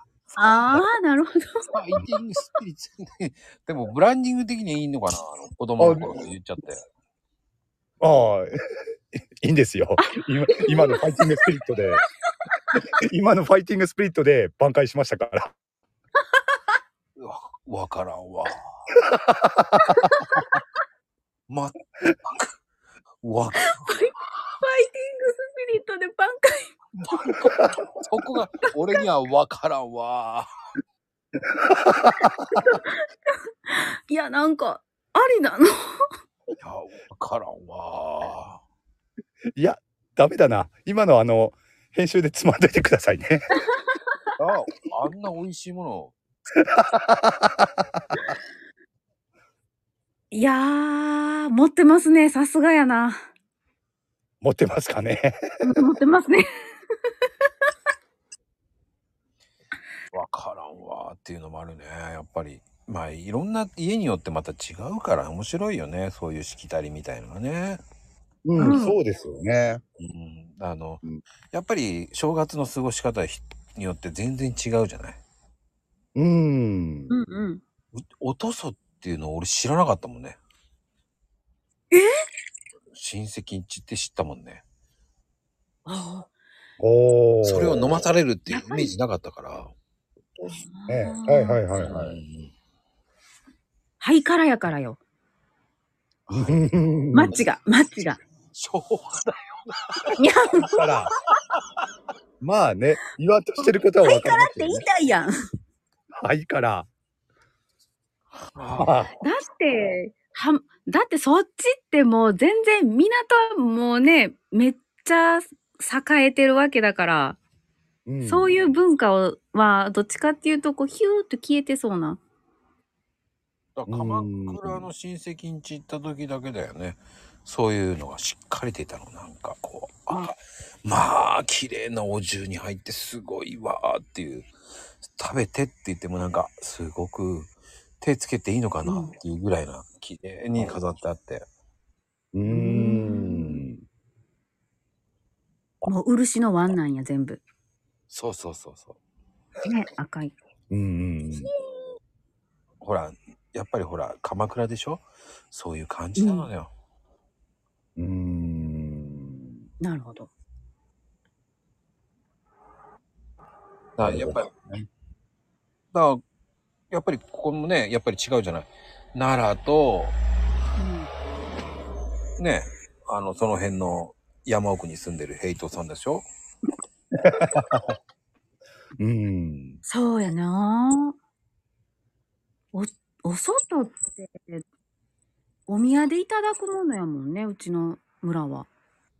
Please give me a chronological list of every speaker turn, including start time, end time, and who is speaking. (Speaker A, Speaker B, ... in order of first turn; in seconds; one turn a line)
Speaker A: 0.4-1.5
Speaker B: 1.7-6.8
Speaker C: 5.8-6.2
Speaker C: 8.0-8.5
Speaker C: 9.4-12.0
Speaker A: 10.2-11.4
Speaker C: 12.7-15.5
Speaker B: 17.2-18.7
Speaker C: 19.1-20.4
Speaker A: 19.9-20.5
Speaker B: 21.5-22.5
Speaker B: 23.2-23.9
Speaker A: 23.6-26.7
Speaker B: 27.0-30.5
Speaker C: 31.6-32.3
Speaker A: 32.2-32.9
Speaker A: 33.7-35.9
Speaker B: 36.6-38.6
Speaker C: 39.6-43.4
Speaker B: 44.4-46.1
Speaker C: 46.6-47.7
Speaker A: 50.3-53.2
Speaker C: 54.4-55.4
Speaker A: 55.6-56.4
Speaker B: 60.1-67.8
Speaker C: 68.5-69.8
Speaker A: 68.6-69.0
Speaker B: 70.0-75.2
Speaker C: 76.2-77.1
Speaker A: 77.1-77.6
Speaker B: 77.9-80.4
Speaker B: 82.9-84.6
Speaker A: 85.9-86.3
Speaker C: 86.8-88.0
Speaker B: 87.4-89.7
Speaker A: 88.5-88.9
Speaker A: 90.5-91.7
Speaker C: 90.9-92.2
Speaker B: 91.8-92.5
Speaker A: 94.0-95.0
Speaker B: 96.3-96.7
Speaker C: 96.3-97.3
Speaker A: 97.1-98.2
Speaker B: 98.5-100.2
Speaker A: 100.2-101.0
Speaker C: 100.7-101.1
Speaker C: 102.4-104.8
Speaker A: 104.0-105.3
Speaker C: 106.2-106.9
Speaker B: 108.5-108.9
Speaker C: 108.8-109.2
Speaker A: 109.2-117.4
Speaker C: 118.1-118.5
Speaker A: 118.2-122.2
Speaker B: 123.8-130.3
Speaker C: 123.9-124.9
Speaker B: 130.8-134.5
Speaker B: 135.1-141.5
Speaker A: 138.9-139.1
Speaker C: 142.3-143.8
Speaker A: 142.5-143.6
Speaker A: 145.8-147.4
Speaker B: 148.1-149.0
Speaker A: 149.6-150.3
Speaker C: 150.7-151.5
Speaker B: 152.8-156.7
Speaker A: 156.2-156.5
Speaker C: 158.0-159.6
Speaker A: 159.8-160.3
Speaker B: 164.0-164.5
Speaker C: 164.0-164.9
Speaker B: 165.9-166.2
Speaker B: 166.9-170.2
Speaker A: 170.8-171.1
Speaker B: 172.4-176.3
Speaker C: 177.2-177.9
Speaker C: 179.0-179.8
Speaker A: 179.9-181.2
Speaker A: 182.7-184.7
Speaker A: 185.7-188.7